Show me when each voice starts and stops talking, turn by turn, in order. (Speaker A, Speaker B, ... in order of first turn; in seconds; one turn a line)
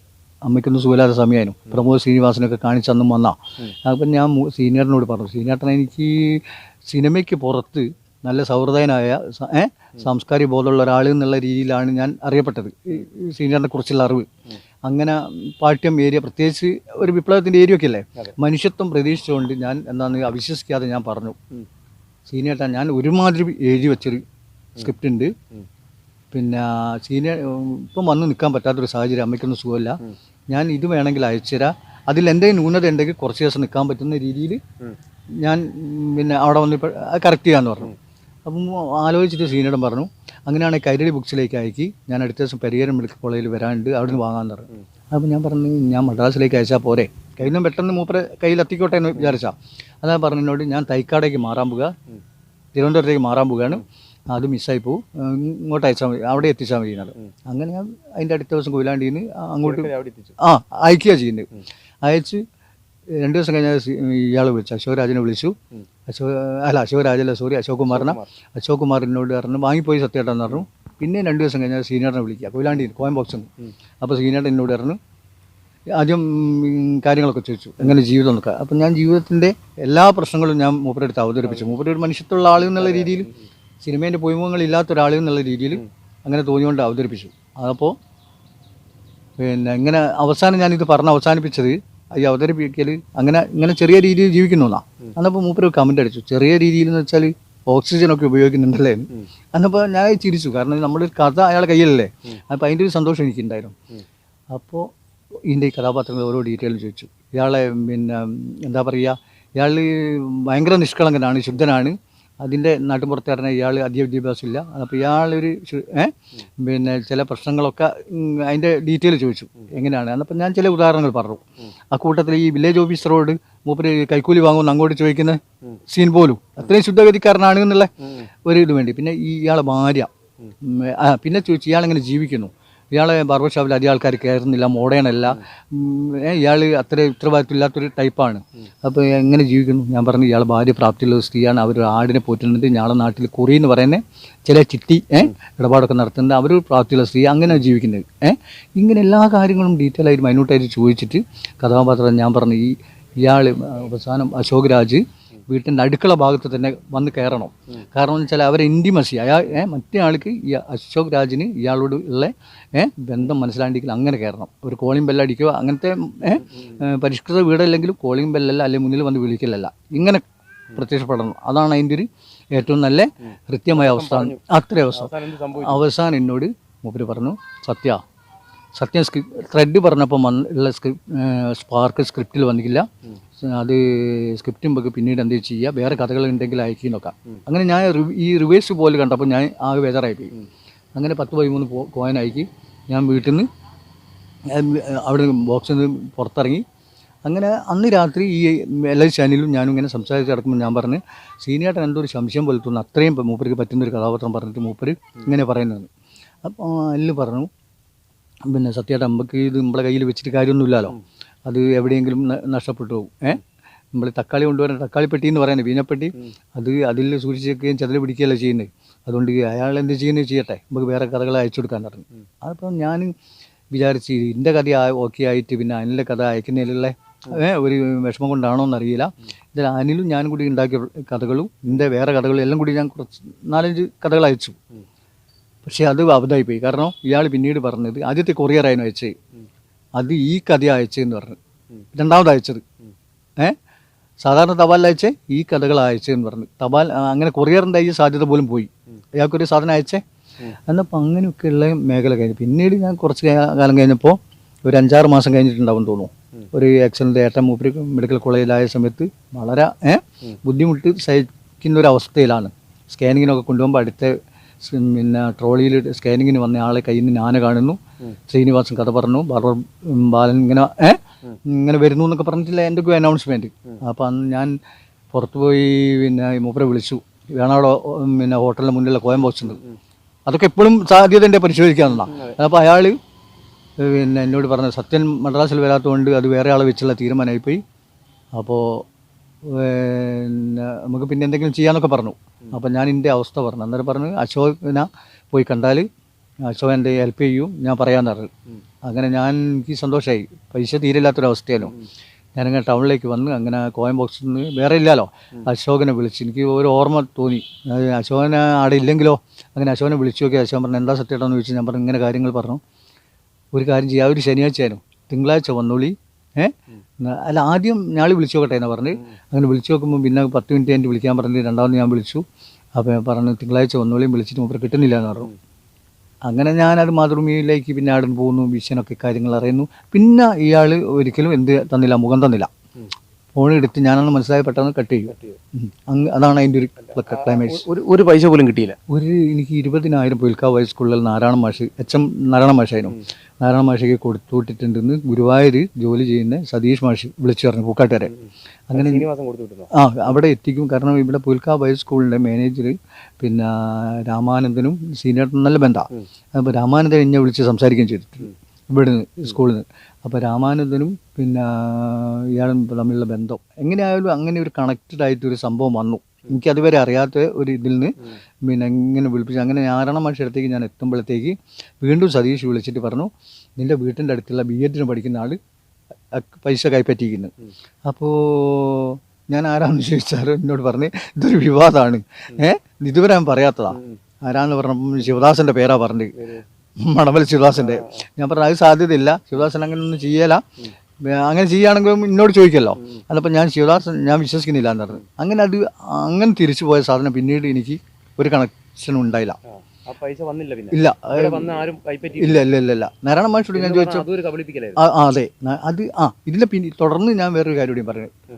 Speaker A: 0.5-14.3
Speaker A: 14.9-21.4
Speaker A: 22.3-24.2
Speaker A: 24.8-25.3
Speaker A: 26.3-34.6
Speaker A: 35.4-51.9
Speaker A: 52.8-61.5
Speaker B: 59.6-60.4
Speaker A: 62.0-62.4
Speaker A: 63.2-65.6
Speaker A: 66.1-73.5
Speaker B: 68.0-68.3
Speaker A: 74.0-75.0
Speaker A: 76.0-88.0
Speaker A: 89.4-103.8
Speaker A: 104.5-104.9
Speaker A: 105.5-130.1
Speaker A: 130.6-178.0
Speaker B: 173.7-174.4
Speaker B: 174.9-175.8
Speaker A: 178.7-190.4
Speaker A: 190.9-193.5
Speaker A: 194.5-196.7
Speaker A: 197.2-205.9
Speaker A: 206.4-207.5
Speaker A: 208.4-213.4
Speaker A: 213.9-223.1
Speaker A: 223.7-234.6
Speaker A: 235.6-239.2
Speaker A: 240.0-241.4
Speaker A: 241.9-242.6
Speaker A: 244.2-274.6
Speaker A: 275.1-279.6
Speaker A: 280.3-283.0
Speaker A: 283.8-287.6
Speaker A: 288.4-288.9
Speaker A: 289.4-295.9
Speaker A: 296.4-298.3
Speaker A: 298.9-301.8
Speaker A: 302.4-312.6
Speaker A: 313.5-322.2
Speaker A: 322.8-325.3
Speaker A: 326.2-332.5
Speaker A: 333.4-337.7
Speaker B: 337.1-338.8
Speaker A: 338.9-348.1
Speaker A: 348.7-349.1
Speaker B: 348.7-349.7
Speaker A: 349.7-375.4
Speaker A: 376.1-377.3
Speaker A: 377.9-390.4
Speaker A: 391.0-399.4
Speaker B: 399.7-402.5
Speaker A: 400.7-401.6
Speaker A: 402.2-404.1
Speaker B: 403.5-404.8
Speaker A: 404.8-408.1